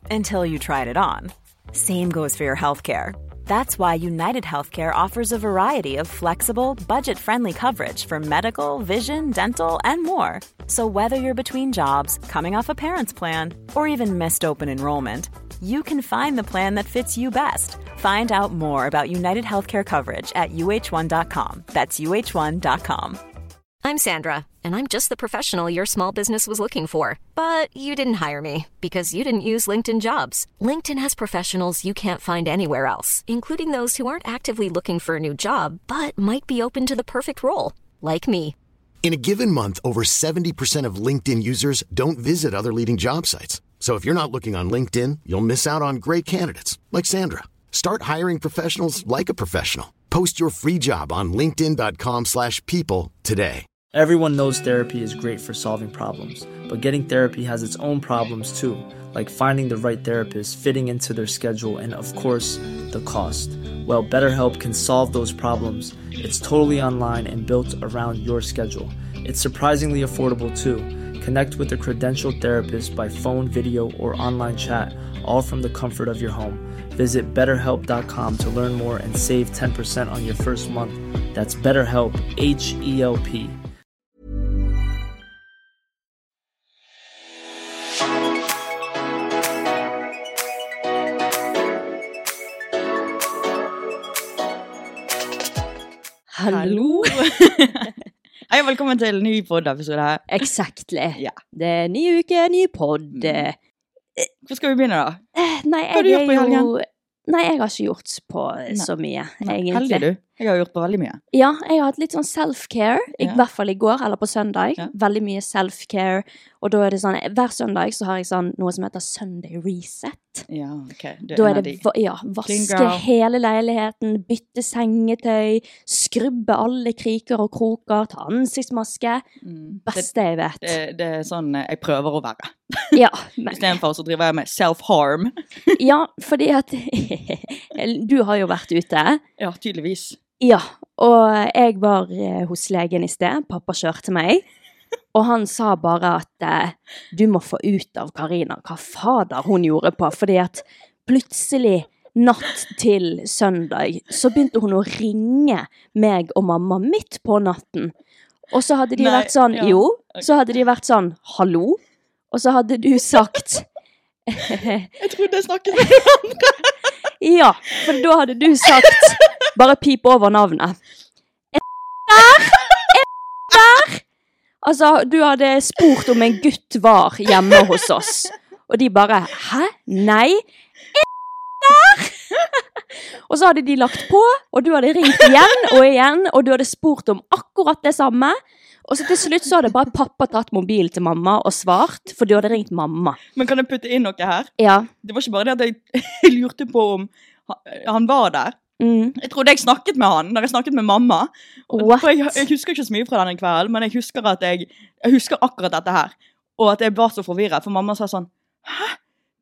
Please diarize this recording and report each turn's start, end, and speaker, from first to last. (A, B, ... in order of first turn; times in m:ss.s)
0:00.1-0:23.2 A
0:23.8-0:38.5 B
0:39.0-0:53.6 C
0:53.9-1:23.6 D
1:36.3-1:37.1 E
1:36.5-1:37.9 F
1:38.5-1:40.4 F
1:40.3-1:43.5 E
1:43.1-1:43.5 F
1:44.4-1:45.2 F
1:45.4-1:50.0 E
1:45.9-1:46.7 F
1:49.4-1:51.2 F
1:51.3-2:00.4 E
2:00.5-2:01.8 F
2:01.3-2:09.2 E
2:02.4-2:03.0 F
2:09.4-2:10.1 F
2:09.8-2:10.8 E
2:10.6-2:13.0 F
2:12.9-2:13.8 E
2:13.5-2:15.8 F
2:15.7-2:19.2 E
2:19.4-2:20.2 F
2:20.4-2:24.4 E
2:25.1-2:37.9 E
2:38.5-2:41.8 E
2:39.0-2:40.2 F
2:42.3-2:43.6 E
2:44.3-2:44.9 E
2:45.0-2:46.7 F
2:45.7-2:46.1 E
2:47.2-2:50.8 E
2:48.6-2:49.3 F
2:51.5-2:54.0 E
2:54.6-3:00.4 E
3:01.6-3:02.2 E
3:03.3-3:13.2 E
3:13.3-3:14.5 F
3:14.6-3:14.9 E
3:15.0-3:18.6 F
3:18.8-3:19.2 E
3:19.2-3:29.0 F
3:21.7-3:22.4 E